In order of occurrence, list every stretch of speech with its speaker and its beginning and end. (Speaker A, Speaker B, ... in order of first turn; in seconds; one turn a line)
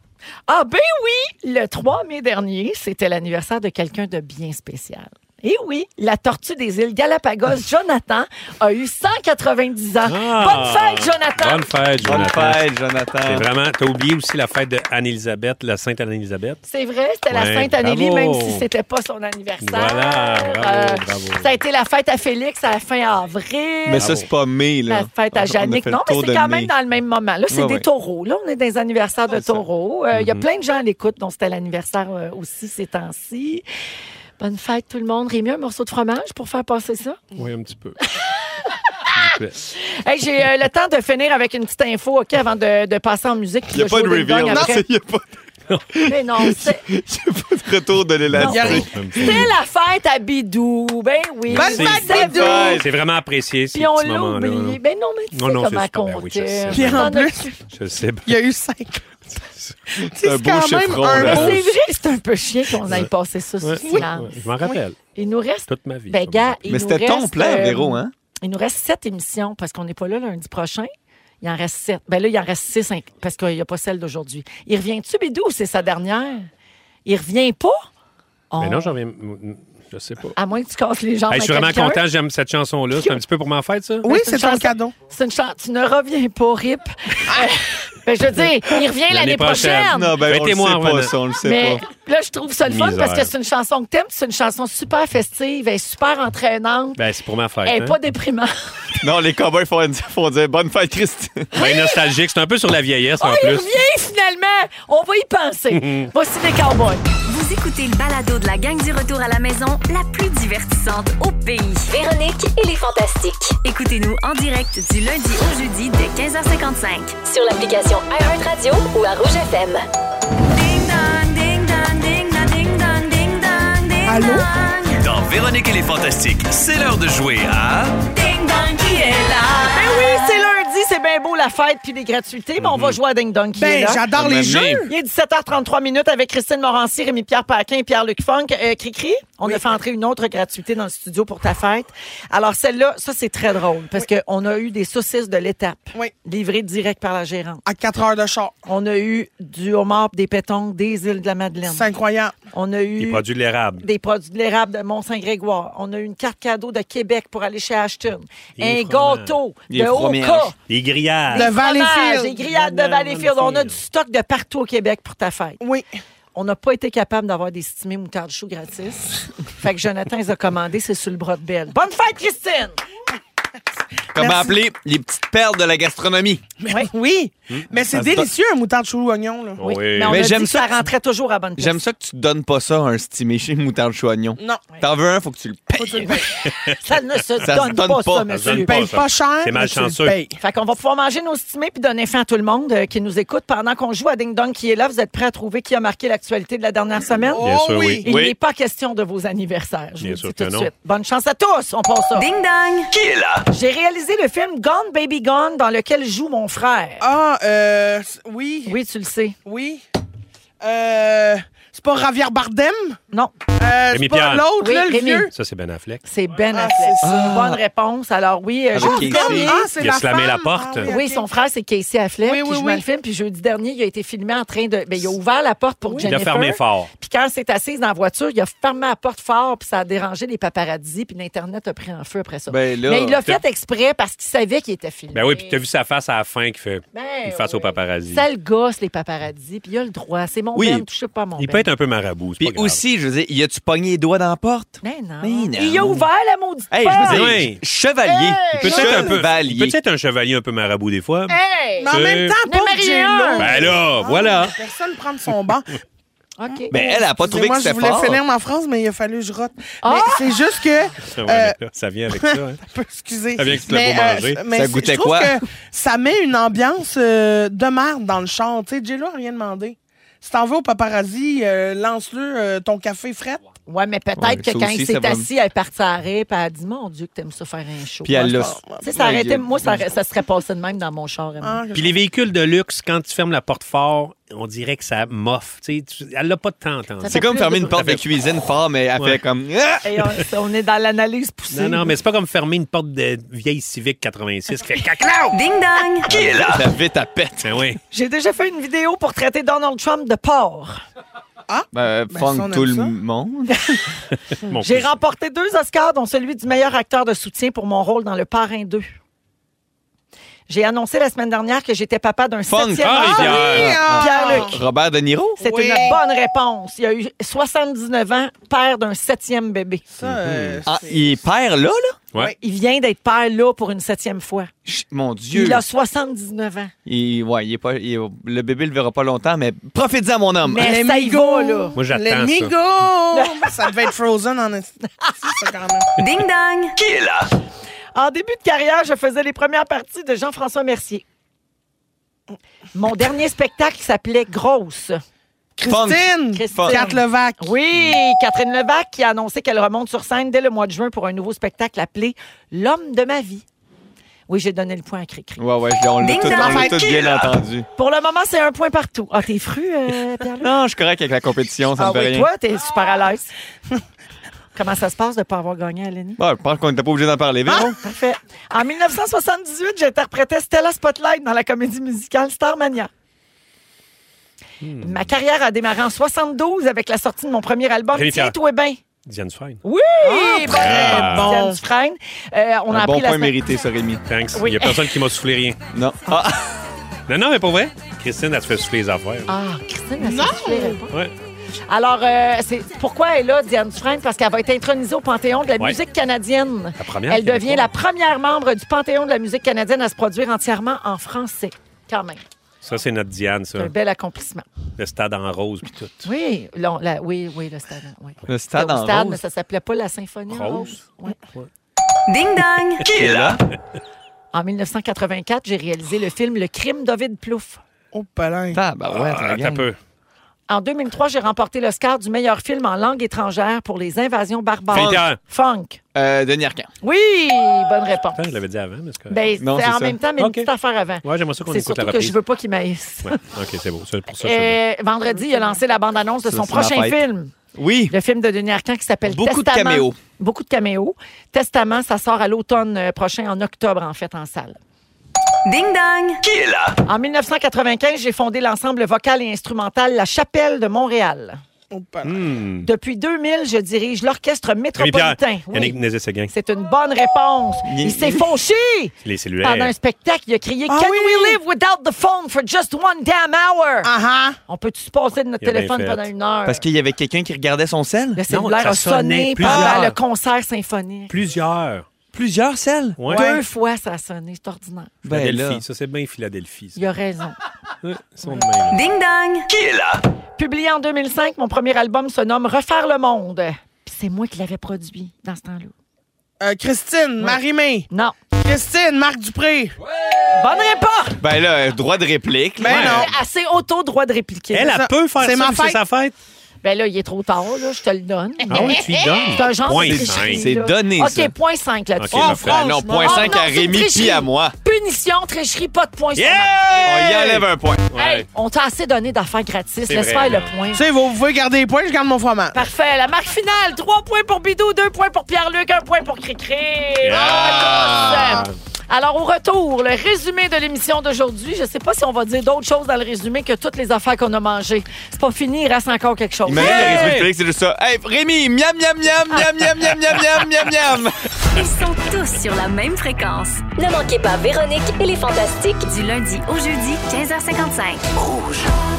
Speaker A: 0.5-11.7
Speaker B: 10.1-12.7
Speaker C: 12.0-13.5
Speaker B: 13.2-16.6
Speaker A: 16.6-24.1
Speaker B: 17.3-18.6
Speaker B: 19.6-21.6
Speaker C: 23.9-26.7
Speaker B: 24.0-24.3
Speaker A: 24.9-33.6
Speaker C: 27.5-27.9
Speaker B: 30.1-30.4
Speaker A: 34.4-37.2
Speaker B: 37.3-38.0
Speaker B: 39.1-39.6
Speaker A: 39.6-44.8
Speaker C: 43.7-48.9
Speaker D: 44.5-44.8
Speaker A: 46.0-46.8
Speaker B: 48.3-49.5
Speaker A: 48.4-52.8
Speaker D: 48.5-49.4
Speaker B: 51.5-54.8
Speaker D: 51.5-52.8
Speaker C: 52.0-52.9
Speaker A: 53.7-57.6
Speaker B: 55.3-57.1
Speaker D: 56.7-57.5
Speaker B: 57.7-58.3
Speaker D: 58.2-59.0
Speaker D: 59.9-61.7
Speaker C: 60.1-61.6
Speaker A: 61.1-64.3
Speaker B: 63.6-65.0
Speaker A: 65.2-70.9
Speaker B: 65.7-66.6
Speaker C: 66.7-68.1
Speaker A: 71.4-76.5
Speaker A: 77.0-77.8
Speaker A: 78.5-78.9
Speaker B: 78.6-80.3
Speaker A: 80.3-82.0
Speaker B: 81.3-84.1
Speaker D: 84.0-84.9
Speaker A: 84.0-90.2
Speaker B: 89.1-91.2
Speaker C: 89.8-91.8
Speaker A: 91.4-97.0
Speaker B: 92.7-93.3
Speaker B: 97.0-98.0
Speaker A: 97.6-98.5
Speaker C: 99.0-101.5
Speaker A: 101.5-102.0
Speaker B: 101.5-103.7
Speaker A: 103.2-107.1
Speaker B: 105.7-106.1
Speaker E: 107.3-119.8
Speaker E: 120.5-125.0
Speaker D: 124.0-124.5
Speaker C: 125.2-126.3
Speaker F: 125.4-127.8
Speaker E: 128.0-130.4
Speaker A: 129.7-134.0
Speaker B: 132.6-133.0
Speaker D: 133.5-134.9
Speaker C: 134.1-134.9
Speaker A: 134.9-147.6
Speaker D: 139.4-139.7
Speaker D: 147.7-148.5
Speaker A: 148.6-151.9
Speaker D: 151.7-152.4
Speaker A: 152.5-153.2
Speaker B: 153.0-153.8
Speaker A: 153.8-160.6
Speaker B: 158.6-159.3
Speaker C: 159.7-160.5
Speaker B: 160.7-161.6
Speaker A: 161.3-165.6
Speaker D: 161.3-162.4
Speaker B: 162.4-163.8
Speaker D: 165.6-165.9
Speaker A: 166.3-172.8
Speaker C: 174.1-176.4
Speaker D: 174.2-174.6
Speaker D: 176.6-179.7
Speaker B: 177.5-178.3
Speaker B: 179.6-180.2
Speaker A: 179.7-181.8
Speaker C: 180.0-180.9
Speaker C: 181.6-186.3
Speaker D: 184.4-184.6
Speaker D: 185.8-186.4
Speaker A: 186.7-188.9
Speaker C: 187.4-188.4
Speaker B: 188.3-190.2
Speaker D: 188.5-190.3
Speaker A: 190.4-197.4
Speaker D: 197.3-198.1
Speaker B: 197.4-198.0
Speaker A: 198.0-202.2
Speaker C: 198.0-198.3
Speaker B: 200.0-200.7
Speaker E: 202.1-202.9
Speaker C: 202.9-203.4
Speaker A: 203.5-207.0
Speaker D: 207.0-208.8
Speaker A: 208.7-209.3
Speaker D: 209.4-209.8
Speaker D: 210.6-213.0
Speaker D: 213.6-215.3
Speaker B: 213.9-214.5
Speaker A: 214.6-215.3
Speaker B: 215.3-216.0
Speaker A: 216.0-219.7
Speaker D: 216.5-217.6
Speaker C: 217.0-217.6
Speaker C: 218.7-219.6
Speaker D: 218.8-221.3
Speaker B: 219.8-220.9
Speaker A: 220.8-235.6
Speaker D: 222.2-222.8
Speaker D: 225.9-226.2
Speaker B: 226.1-226.9
Speaker C: 232.5-233.2
Speaker B: 235.1-238.2
Speaker A: 236.9-241.7
Speaker C: 240.5-240.8
Speaker B: 241.4-242.8
Speaker C: 242.4-246.1
Speaker A: 244.8-247.3
Speaker C: 246.7-249.8
Speaker B: 247.0-247.6
Speaker A: 248.1-248.6
Speaker B: 248.6-251.4
Speaker D: 248.6-249.2
Speaker A: 251.3-253.6
Speaker D: 251.8-255.8
Speaker B: 251.9-252.4
Speaker B: 253.4-254.6
Speaker A: 256.4-256.7
Speaker C: 256.7-258.2
Speaker D: 256.7-261.6
Speaker A: 259.8-260.2
Speaker B: 261.1-262.6
Speaker D: 262.1-273.4
Speaker B: 263.4-264.4
Speaker C: 263.6-265.4
Speaker A: 273.7-281.6
Speaker C: 274.2-275.3
Speaker C: 278.0-279.8
Speaker D: 278.2-278.8
Speaker D: 281.4-282.0
Speaker B: 281.7-288.0
Speaker A: 287.0-287.8
Speaker C: 287.0-289.9
Speaker A: 289.8-291.9
Speaker B: 291.5-295.2
Speaker E: 295.3-296.6
Speaker C: 296.1-297.6
Speaker B: 297.4-297.8
Speaker A: 297.9-300.8
Speaker D: 301.5-302.9
Speaker C: 301.7-303.6
Speaker B: 304.5-304.9
Speaker A: 304.6-309.0
Speaker A: 310.5-314.6
Speaker C: 312.5-315.4
Speaker B: 312.8-313.8
Speaker D: 313.0-314.6
Speaker A: 315.4-319.8
Speaker D: 315.4-316.0
Speaker D: 319.9-321.1
Speaker B: 320.0-320.6
Speaker C: 320.6-322.0
Speaker A: 322.4-324.5
Speaker C: 324.6-325.6
Speaker A: 325.3-326.7
Speaker C: 326.9-330.8
Speaker A: 330.4-331.8
Speaker D: 330.6-335.9
Speaker B: 331.8-332.5
Speaker A: 333.1-333.6
Speaker A: 335.0-335.3
Speaker E: 336.0-336.8
Speaker C: 336.8-337.3
Speaker A: 337.9-341.0
Speaker A: 342.7-345.0
Speaker D: 345.6-347.5
Speaker C: 345.6-346.8
Speaker A: 346.3-353.4
Speaker A: 354.3-355.4
Speaker C: 355.4-357.7
Speaker E: 356.0-357.3
Speaker D: 356.2-357.0
Speaker A: 357.8-360.5
Speaker C: 360.4-362.3
Speaker A: 361.8-363.3
Speaker A: 364.5-366.2
Speaker C: 366.2-367.8
Speaker A: 367.5-372.9
Speaker B: 374.6-375.1
Speaker A: 374.8-378.8
Speaker B: 377.9-378.4
Speaker B: 379.1-379.6
Speaker A: 379.6-383.4
Speaker D: 380.0-381.6
Speaker B: 380.5-381.3
Speaker C: 382.7-384.0
Speaker B: 384.1-385.6
Speaker A: 384.4-384.9
Speaker C: 385.7-386.4
Speaker B: 387.1-389.3
Speaker A: 389.3-391.0
Speaker D: 390.0-390.8
Speaker A: 391.7-402.2
Speaker B: 396.8-397.7
Speaker B: 402.6-403.7
Speaker A: 403.6-404.4
Speaker B: 404.8-406.1
Speaker A: 406.0-411.2
Speaker C: 408.2-409.2
Speaker B: 410.3-410.8
Speaker E: 412.1-413.3
Speaker C: 412.8-413.4
Speaker A: 414.3-417.6
Speaker D: 417.9-418.6
Speaker C: 418.5-419.7
Speaker B: 418.9-419.8
Speaker A: 420.5-425.8
Speaker C: 424.7-425.1
Speaker B: 424.7-425.2
Speaker C: 425.9-426.7
Speaker A: 426.8-428.3
Speaker B: 428.2-429.2
Speaker A: 429.1-433.2
Speaker C: 429.4-430.0
Speaker B: 430.2-430.5
Speaker B: 431.0-432.2
Speaker B: 433.0-434.6
Speaker A: 434.2-437.3
Speaker C: 436.3-437.0
Speaker C: 437.5-437.9
Speaker A: 437.9-444.6
Speaker C: 439.1-440.0
Speaker E: 445.4-446.2
Speaker C: 446.2-446.8
Speaker A: 446.9-451.4
Speaker D: 451.7-452.2
Speaker B: 452.0-452.7
Speaker A: 452.6-455.8
Speaker B: 454.8-456.3
Speaker A: 456.3-463.9
Speaker C: 457.6-458.3
Speaker B: 459.0-459.7
Speaker D: 460.7-461.4
Speaker D: 463.8-464.4
Speaker A: 464.5-466.6
Speaker B: 465.4-466.1
Speaker C: 466.4-468.2
Speaker A: 468.1-471.2
Speaker B: 468.3-470.0
Speaker C: 469.4-469.9
Speaker B: 471.1-471.8
Speaker C: 472.1-473.0
Speaker B: 473.0-473.3
Speaker D: 473.1-473.4
Speaker A: 473.1-474.9
Speaker C: 475.0-475.6
Speaker B: 475.1-476.8
Speaker A: 476.8-477.4
Speaker B: 477.8-478.8
Speaker E: 478.7-479.5
Speaker C: 479.5-480.0
Speaker A: 480.4-485.7
Speaker D: 486.4-487.9
Speaker A: 487.2-488.1
Speaker D: 488.4-489.7
Speaker A: 490.3-491.2
Speaker C: 491.2-493.0
Speaker D: 492.6-493.1
Speaker A: 492.7-494.8
Speaker B: 492.7-493.1
Speaker B: 494.5-496.1
Speaker D: 494.6-495.8
Speaker A: 496.6-507.0
Speaker B: 498.5-500.5
Speaker C: 499.6-501.3
Speaker B: 502.0-502.6
Speaker D: 502.1-503.4
Speaker C: 502.4-504.5
Speaker B: 506.1-508.3
Speaker C: 506.8-507.9
Speaker A: 507.9-510.8
Speaker B: 509.9-510.5
Speaker D: 510.7-512.6
Speaker A: 512.5-527.2
Speaker B: 517.0-518.5
Speaker C: 517.1-518.4
Speaker C: 526.5-531.1
Speaker B: 526.5-527.3
Speaker E: 531.5-538.0
Speaker F: 538.1-538.7